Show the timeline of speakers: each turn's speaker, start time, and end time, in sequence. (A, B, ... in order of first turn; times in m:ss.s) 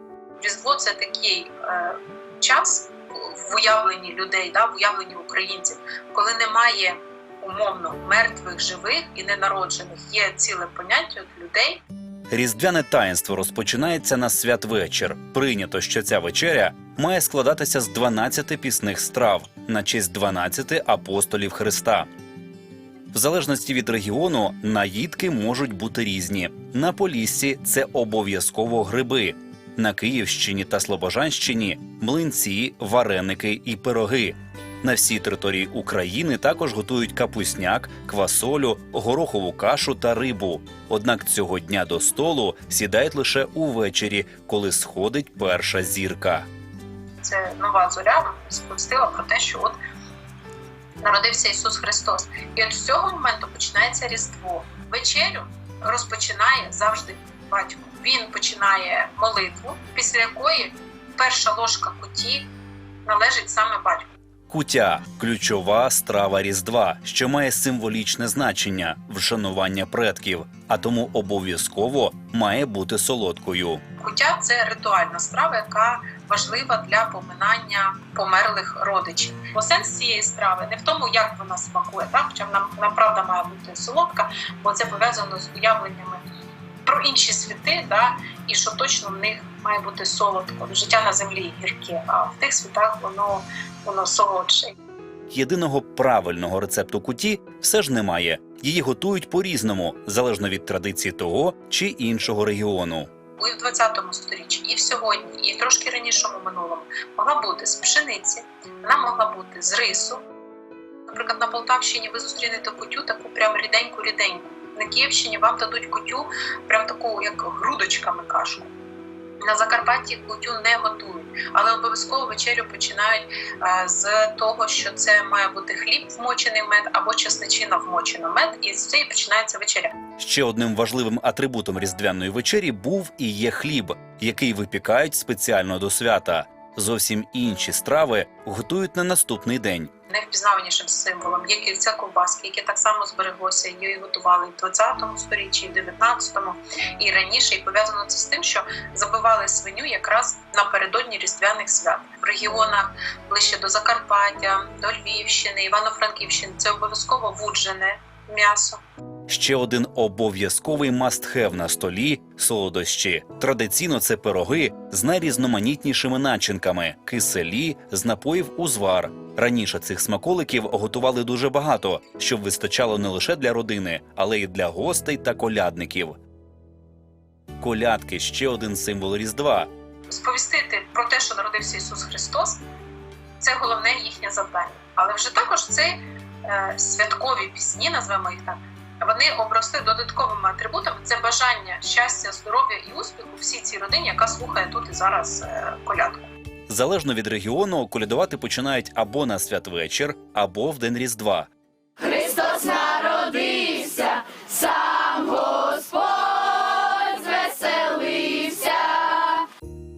0:00.4-0:11.8 A
0:12.3-0:22.1 B
0:23.1-0:46.4 B
0:47.2-0:49.8 A
0:51.0-1:02.5 A
1:03.0-1:04.1 A
1:04.5-1:13.8 B
1:14.0-1:26.2 A
1:26.8-1:34.7 A
1:35.3-1:43.1 B
1:43.4-1:50.2 A
1:51.1-1:58.7 A
1:59.4-2:10.0 A
2:10.2-2:19.9 B
2:20.1-2:38.8 A
2:39.3-2:56.2 B
2:57.6-2:59.7 B
3:00.1-3:02.6 A
3:03.4-3:16.3 A
3:16.7-3:21.5 B
3:22.0-3:29.4 C